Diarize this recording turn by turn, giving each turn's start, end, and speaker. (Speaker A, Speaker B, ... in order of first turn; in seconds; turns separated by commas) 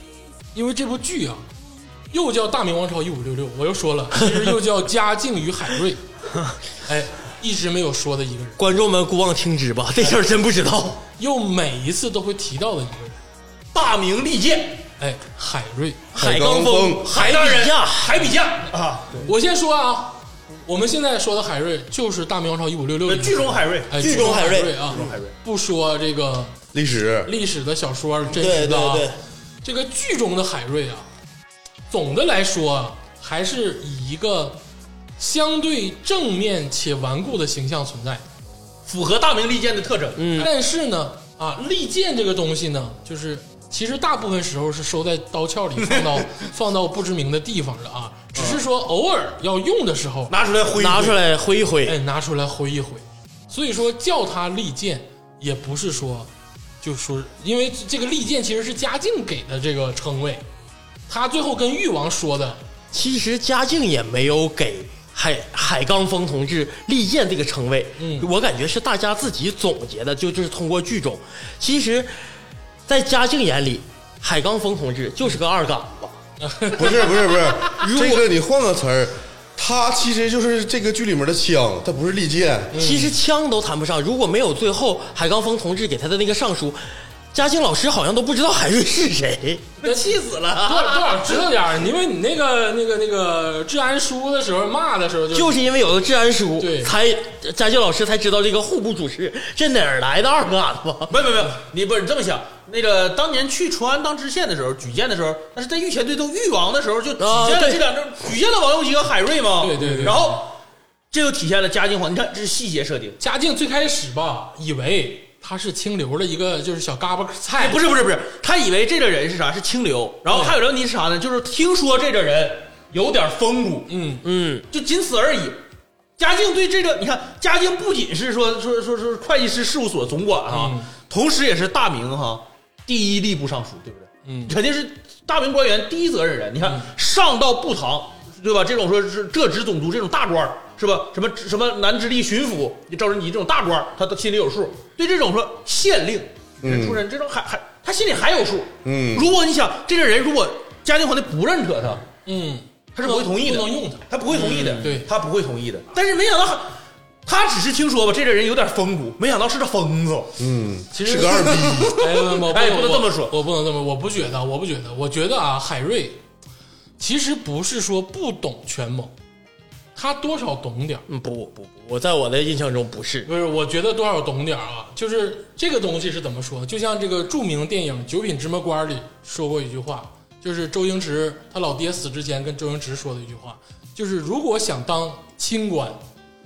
Speaker A: 0.5-1.5, Speaker A: 2.1-6.0, Speaker A: 6.8-8.6, Speaker B: 8.6-11.0, Speaker A: 11.2-13.2, Speaker C: 13.7-14.9, Speaker A: 15.0-16.0, Speaker B: 16.1-18.2, Speaker D: 16.1-17.1, Speaker C: 17.0-19.3, Speaker A: 19.2-26.6, Speaker C: 23.1-24.3, Speaker B: 24.0-25.0, Speaker C: 24.9-25.3, Speaker D: 26.7-27.3, Speaker A: 27.2-29.1, Speaker B: 28.3-29.2, Speaker A: 29.6-31.1, Speaker A: 31.9-34.6, Speaker A: 35.2-38.2, Speaker C: 38.9-40.2, Speaker B: 40.2-40.5, Speaker A: 40.4-50.4, Speaker C: 45.9-46.3, Speaker C: 48.4-48.6, Speaker C: 50.3-51.2, Speaker B: 50.7-52.0, Speaker A: 51.9-56.3, Speaker A: 56.8-60.5, Speaker A: 61.1-62.6, Speaker B: 62.9-72.2, Speaker A: 68.0-68.3, Speaker B: 72.9-76.2, Speaker A: 76.4-77.8, Speaker D: 76.8-82.8, Speaker B: 77.8-78.2, Speaker A: 82.7-83.2, Speaker B: 82.7-89.7, Speaker C: 89.8-91.4, Speaker A: 89.8-90.1, Speaker A: 90.6-95.6, Speaker B: 95.3-101.2, Speaker A: 96.6-97.0, Speaker C: 101.1-110.6, Speaker B: 107.2-107.8, Speaker A: 109.6-110.4, Speaker C: 111.1-113.2, Speaker A: 113.2-117.8, Speaker C: 117.6-123.9, Speaker A: 120.3-120.6, Speaker A: 123.9-124.2, Speaker B: 124.2-124.7, Speaker C: 124.7-125.6, Speaker C: 126.2-152.1, Speaker A: 130.5-130.9, Speaker A: 134.3-134.5, Speaker D: 146.6-147.0, Speaker D: 148.8-149.3, Speaker A: 152.2-154.1, Speaker C: 152.9-160.4, Speaker B: 154.3-154.9, Speaker A: 154.8-155.1, Speaker D: 160.4-161.9, Speaker A: 160.9-166.2, Speaker C: 161.2-163.3, Speaker A: 167.0-169.1, Speaker A: 169.9-171.1, Speaker B: 171.1-173.3, Speaker A: 173.3-186.0